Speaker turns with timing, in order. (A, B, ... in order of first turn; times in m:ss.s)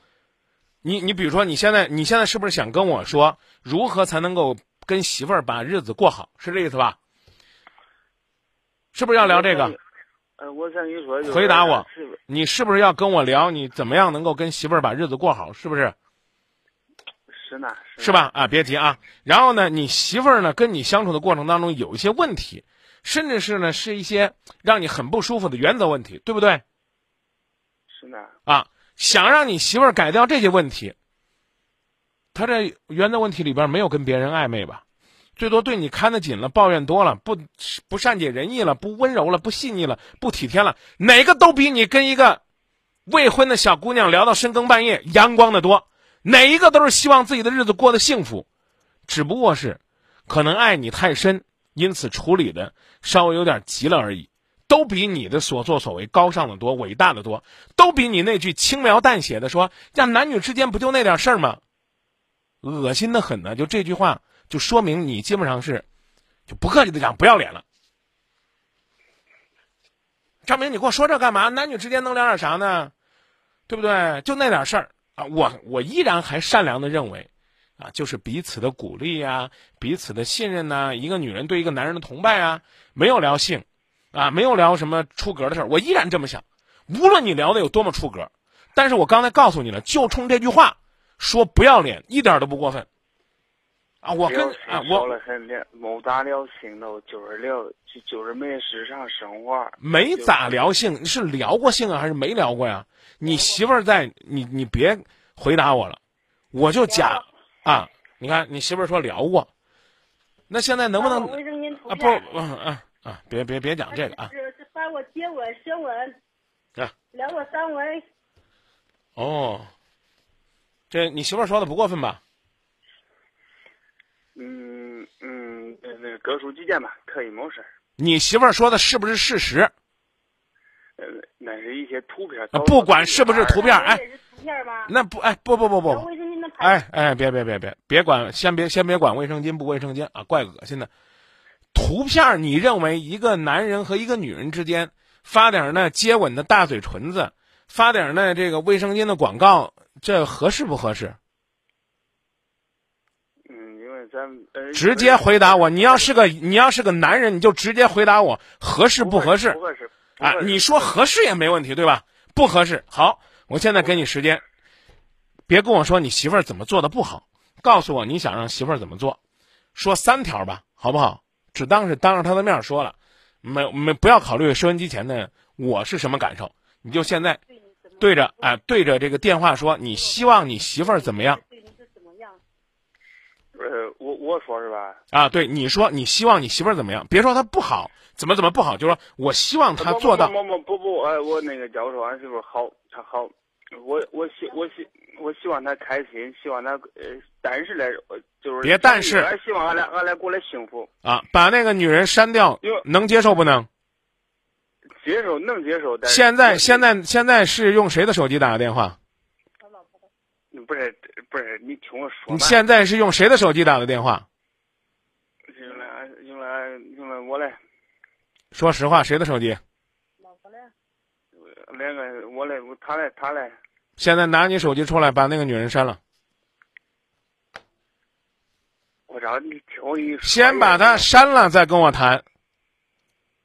0:00.8-0:07.0 A
0:08.9-0:09.8 A
0:09.2-0:09.8 B
0:10.4-0:12.2 B
0:11.2-0:16.0 A
0:17.3-0:18.2 B
0:18.0-0:26.6 A
0:27.9-0:28.4 B
0:28.5-0:31.0 A
0:32.3-0:34.8 A
0:35.4-0:42.4 A
0:43.1-0:48.5 A
0:49.1-1:01.6 A
1:02.6-1:05.8 A
1:06.5-1:07.6 A
1:10.4-1:12.9 A
1:13.7-1:32.9 A
1:34.0-1:35.2 A
1:34.3-1:40.4 B
1:39.8-1:46.0 A
1:43.2-1:43.6 C
1:46.5-1:49.5 A
1:46.9-1:47.2 C
1:50.5-1:54.3 A
1:51.0-1:52.3 C
1:53.9-1:56.2 C
1:57.1-1:58.0 C
1:59.2-1:59.7 A
2:00.9-2:02.2 A
2:04.4-2:07.7 B
2:08.0-2:09.7 A
2:11.0-2:13.6 B
2:12.5-2:14.0 A
2:13.5-2:14.9 C
2:14.9-2:16.1 A
2:15.9-2:16.8 C
2:16.6-2:20.9 A
2:21.7-2:31.2 A
2:33.5-2:36.1 B
2:34.7-2:39.6 A
2:39.0-2:40.9 B
2:40.2-2:44.4 A
2:45.5-2:49.2 A
2:49.8-2:57.4 A
2:57.5-2:58.1 C
2:58.0-3:01.4 A
2:59.9-3:02.4 C
3:03.5-3:05.0 B
3:05.1-3:10.3 A
3:09.8-3:20.9 B
3:18.6-3:19.3 A
3:21.0-3:23.7 A
3:25.0-3:26.8 B
3:26.0-3:29.0 A
3:29.6-3:30.1 C
3:30.5-3:32.6 B
3:32.3-3:34.3 A
3:35.5-3:37.6 B
3:38.5-3:39.6 A
3:40.2-3:40.7 C
3:41.4-3:43.6 B
3:44.0-3:46.0 A
3:49.1-3:51.1 B
3:50.2-3:52.2 A